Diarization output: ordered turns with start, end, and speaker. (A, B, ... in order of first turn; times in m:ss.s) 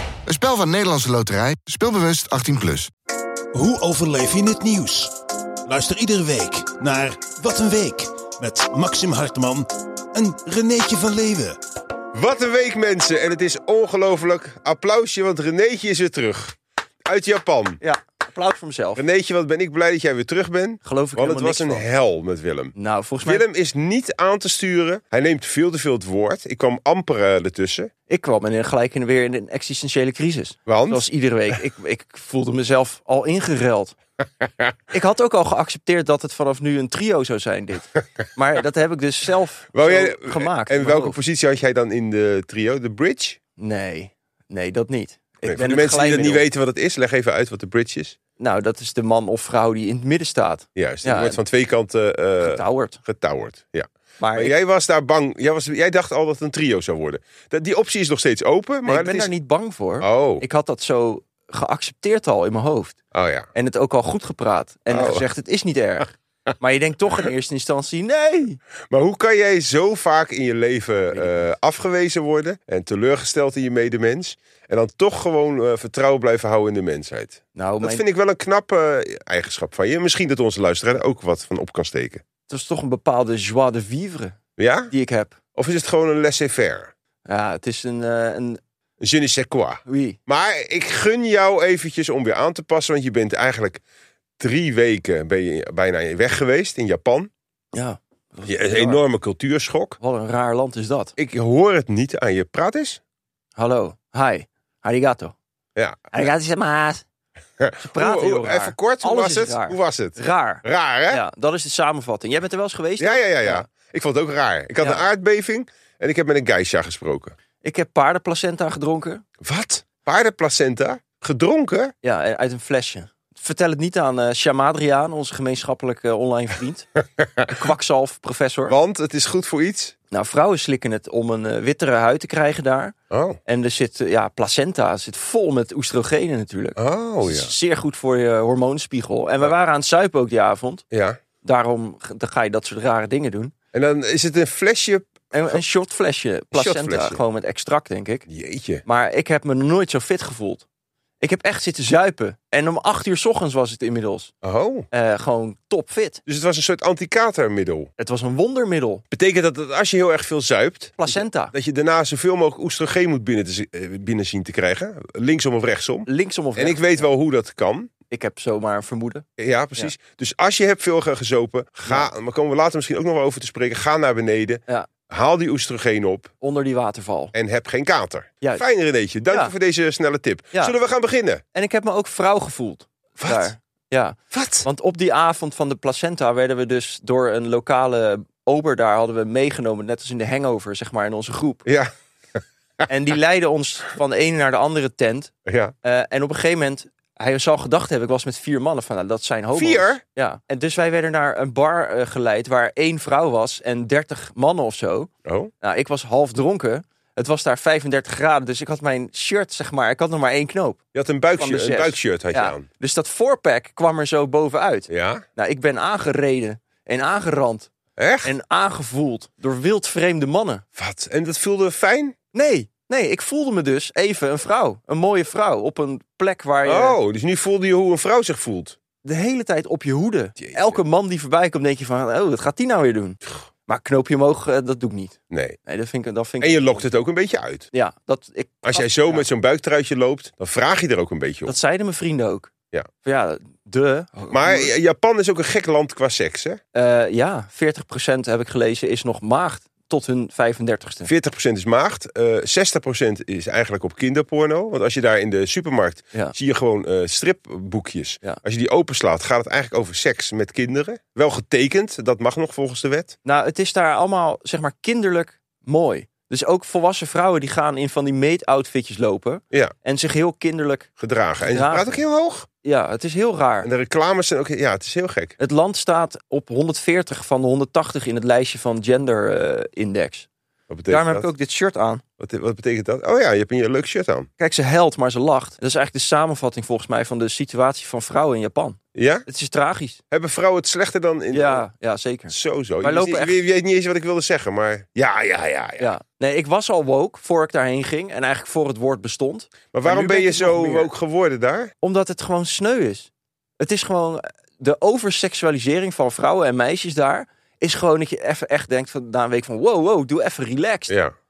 0:00.2-0:02.9 A
0:03.5-0:05.1 B
0:05.6-0:11.6 B
0:12.1-0:17.8 C
0:17.8-0:19.0 D
0:19.0-0:27.9 C
0:20.8-0:21.8 D
0:22.8-0:23.4 D
0:28.1-0:34.0 D
0:30.7-0:31.0 C
0:34.9-0:41.2 D
0:39.7-0:43.4 C
0:43.6-0:46.4 D
0:45.4-0:48.2 C
0:48.4-0:51.4 D
0:50.8-0:59.3 C
0:52.4-0:53.0 D
0:54.2-0:54.5 D
0:58.8-1:03.0 D
1:00.0-1:00.4 C
1:03.1-1:03.5 C
1:03.5-1:08.6 D
1:04.9-1:05.2 C
1:08.9-1:22.2 C
1:11.1-1:11.5 D
1:17.6-1:18.0 D
1:22.5-1:24.4 D
1:24.6-1:24.9 C
1:24.9-1:25.4 D
1:25.6-1:26.9 C
1:27.2-1:28.6 D
1:29.0-1:33.8 C
1:29.8-1:30.2 D
1:34.4-1:37.3 C
1:37.7-1:39.0 D
1:38.4-1:40.0 C
1:40.0-1:41.1 D
1:41.2-1:43.0 C
1:43.6-1:45.3 D
1:45.8-1:46.1 C
1:46.1-1:47.0 D
1:47.6-1:51.2 C
1:47.8-1:53.7 D
1:53.0-1:57.3 C
1:57.6-1:59.2 D
1:59.4-2:01.9 C
2:02.0-2:08.8 D
2:08.7-2:10.0 C
2:10.1-2:12.9 D
2:13.1-2:13.4 C
2:13.4-2:20.8 D
2:16.8-2:17.5 C
2:20.9-2:21.2 C
2:21.4-2:23.5 D
2:23.7-2:25.6 C
2:25.3-2:28.3 D
2:26.5-2:27.2 C
2:28.3-2:28.8 C
2:28.8-2:30.6 D
2:31.2-2:34.3 D
2:34.4-2:34.9 C
2:34.9-2:36.2 D
2:36.3-2:37.9 C
2:38.0-2:39.0 D
2:39.1-2:47.9 C
2:41.0-2:41.5 D
2:46.0-2:47.0 D
2:48.1-2:49.2 D
2:49.4-2:56.3 C
2:56.4-2:57.3 D
2:57.3-3:01.4 C
3:01.5-3:11.6 D
3:03.2-3:03.5 C
3:04.3-3:04.7 C
3:11.7-3:11.9 C
3:12.9-3:15.3 D
3:15.4-3:15.7 C
3:15.8-3:25.1 D
3:19.5-3:20.0 C
3:25.2-3:25.5 C
3:25.6-3:30.8 D
3:30.9-3:32.7 C
3:31.4-3:37.7 D
3:34.9-3:35.2 C
3:38.0-3:38.3 C
3:38.2-3:40.6 D
3:40.8-3:42.2 C
3:42.3-3:47.0 D
3:46.6-3:48.8 C
3:49.0-3:56.8 D
3:50.4-3:50.8 C
3:55.3-3:55.6 C
3:56.4-3:57.7 C
3:57.7-3:59.2 D
3:58.6-4:01.5 C
4:01.5-4:02.5 D
4:03.0-4:04.7 D
4:04.3-4:06.6 C
4:06.7-4:11.1 D
4:11.0-4:23.2 C
4:23.2-4:30.9 D
4:31.0-4:32.5 C
4:31.4-4:32.0 D
4:32.6-4:33.7 D
4:33.6-4:35.4 C
4:35.4-4:40.3 D
4:40.7-4:41.3 C
4:40.9-4:42.0 D
4:42.2-4:44.3 C
4:44.4-4:50.0 D
4:48.9-4:49.2 C
4:50.1-4:51.6 C
4:51.3-4:53.4 D
4:52.3-4:55.9 C
4:55.8-5:00.9 D
4:59.7-5:01.7 C
5:01.8-5:10.9 D
5:10.9-5:11.1 C